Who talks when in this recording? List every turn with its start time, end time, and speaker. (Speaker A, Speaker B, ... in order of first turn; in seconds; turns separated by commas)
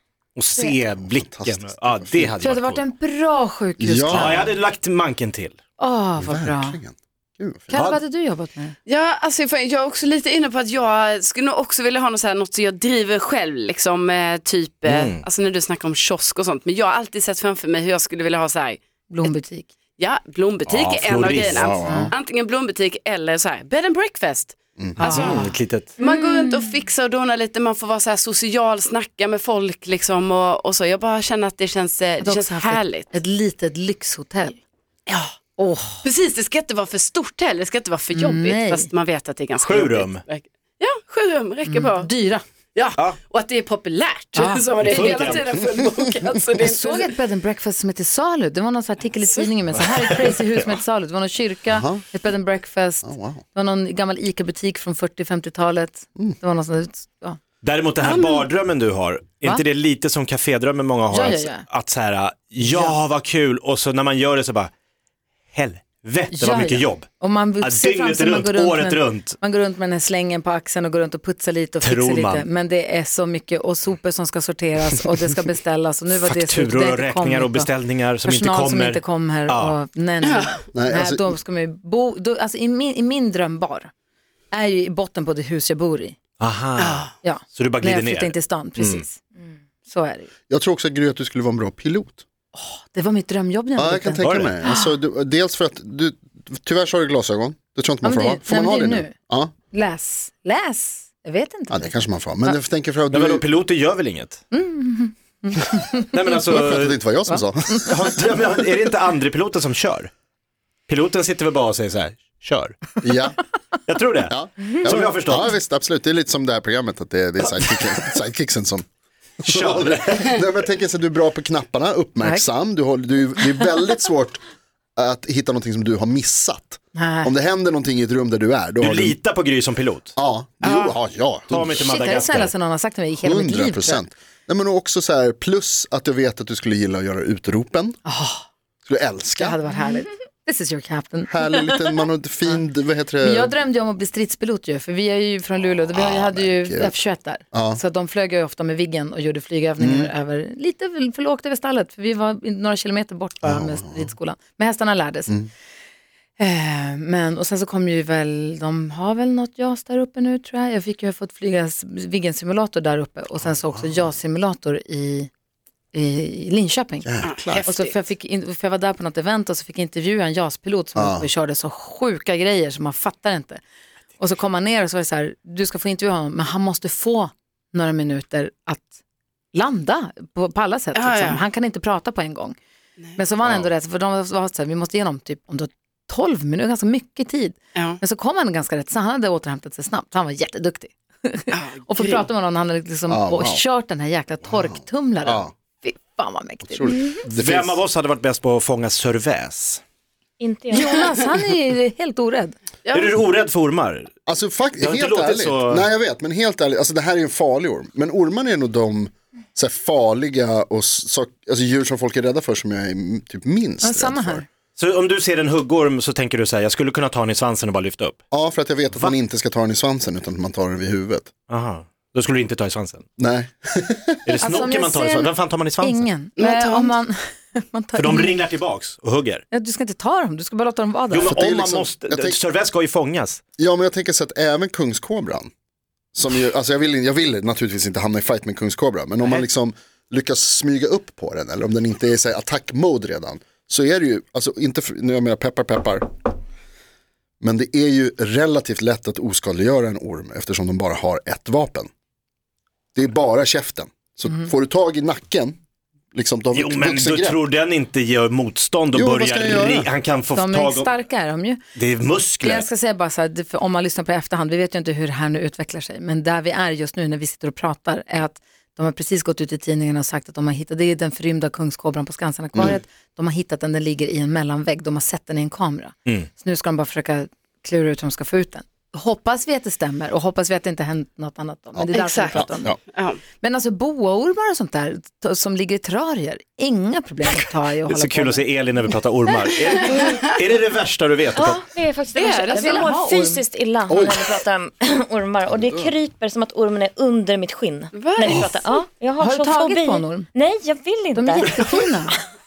Speaker A: 0.3-2.8, Speaker B: 1.0-2.4, Speaker C: 2.4-4.5, Speaker B: 3.8-4.5, Speaker A: 4.1-5.6, Speaker C: 5.8-6.8, Speaker B: 6.2-7.8, Speaker C: 7.7-8.8, Speaker A: 7.7-8.0, Speaker D: 8.8-18.8, Speaker A: 14.8-15.2, Speaker C: 19.1-19.7, Speaker D: 20.0-25.4, Speaker A: 20.7-21.8, Speaker B: 21.4-22.1, Speaker C: 21.9-22.1, Speaker B: 24.8-25.0, Speaker C: 25.0-26.4, Speaker A: 25.0-25.9, Speaker D: 26.0-33.1, Speaker E: 26.0-26.4, Speaker C: 32.2-34.6, Speaker D: 35.1-35.3, Speaker C: 35.6-36.0, Speaker D: 36.0-42.1, Speaker C: 38.1-38.9, Speaker A: 39.6-40.2, Speaker C: 41.7-42.4, Speaker D: 42.7-47.1, Speaker C: 44.3-45.5, Speaker A: 44.8-45.4, Speaker C: 46.6-57.4, Speaker B: 51.7-52.0, Speaker B: 53.0-53.4, Speaker A: 57.6-64.7, Speaker D: 58.0-58.5, Speaker C: 61.1-61.6, Speaker C: 62.6-62.9, Speaker A: 65.5-67.1, Speaker C: 66.3-77.7, Speaker A: 67.6-69.3, Speaker A: 71.8-72.4, Speaker A: 76.2-79.7, Speaker C: 78.2-83.9, Speaker D: 80.2-80.5, Speaker B: 80.7-81.3, Speaker C: 84.5-86.2, Speaker A: 86.4-89.0, Speaker D: 86.8-87.1, Speaker C: 87.2-89.2, Speaker C: 89.8-90.3, Speaker B: 90.5-92.2, Speaker C: 92.5-94.9, Speaker B: 93.8-99.5, Speaker A: 94.2-94.5, Speaker C: 98.0-99.1, Speaker C: 99.7-101.9, Speaker B: 101.7-103.4, Speaker A: 103.1-104.4, Speaker C: 104.5-106.1, Speaker A: 106.1-107.0, Speaker B: 106.5-108.5, Speaker A: 107.8-110.1, Speaker A: 110.9-112.9, Speaker B: 113.0-113.4, Speaker A: 113.9-115.5, Speaker B: 114.3-118.8, Speaker B: 119.4-124.4, Speaker A: 119.4-120.4, Speaker B: 125.0-129.2, Speaker C: 126.9-127.3, Speaker A: 128.8-130.1, Speaker B: 130.2-131.9, Speaker A: 131.5-132.5, Speaker C: 131.8-134.0, Speaker B: 133.2-138.0, Speaker C: 138.0-138.4, Speaker B: 138.8-139.6, Speaker C: 139.4-141.3, Speaker B: 141.3-143.5, Speaker C: 143.2-155.3, Speaker B: 145.9-147.0, Speaker B: 147.5-147.8, Speaker B: 149.8-150.1, Speaker B: 153.4-154.1, Speaker C: 156.4-165.3, Speaker B: 163.4-164.1, Speaker C: 165.9-167.1, Speaker B: 167.0-167.7, Speaker D: 167.2-167.9, Speaker C: 167.6-173.6, Speaker B: 170.9-171.3, Speaker C: 174.2-178.9, Speaker C: 179.5-182.6, Speaker D: 180.9-181.4, Speaker C: 183.2-197.0, Speaker B: 183.4-183.7, Speaker D: 191.5-192.2, Speaker B: 193.1-193.6, Speaker B: 194.5-195.5, Speaker B: 196.6-197.8, Speaker E: 196.9-197.2, Speaker A: 197.2-199.8, Speaker E: 200.4-201.1, Speaker C: 200.7-202.6, Speaker D: 202.8-203.2, Speaker A: 202.9-204.1, Speaker B: 204.3-214.4, Speaker A: 204.8-205.8, Speaker C: 213.8-214.4, Speaker A: 214.8-218.2, Speaker B: 218.3-221.3, Speaker A: 221.5-223.0, Speaker B: 223.2-224.3, Speaker A: 224.2-226.1, Speaker C: 224.4-228.4, Speaker D: 226.4-226.9, Speaker A: 227.9-229.4, Speaker C: 229.5-231.3, Speaker A: 231.1-233.4, Speaker B: 231.2-232.4, Speaker B: 233.6-235.5, Speaker B: 236.1-246.1, Speaker B: 247.4-251.9, Speaker B: 252.9-255.6, Speaker B: 256.1-257.4, Speaker A: 256.5-260.9, Speaker B: 258.9-259.9, Speaker C: 260.3-261.6, Speaker A: 261.7-262.6, Speaker C: 262.4-282.7, Speaker B: 281.7-282.8, Speaker D: 281.9-283.2, Speaker C: 283.4-288.4, Speaker A: 287.9-291.6, Speaker E: 291.3-302.2, Speaker D: 292.1-293.1, Speaker C: 292.5-293.4, Speaker B: 293.9-294.4, Speaker B: 295.5-295.9, Speaker D: 297.9-298.5, Speaker C: 299.2-300.3, Speaker C: 301.1-302.2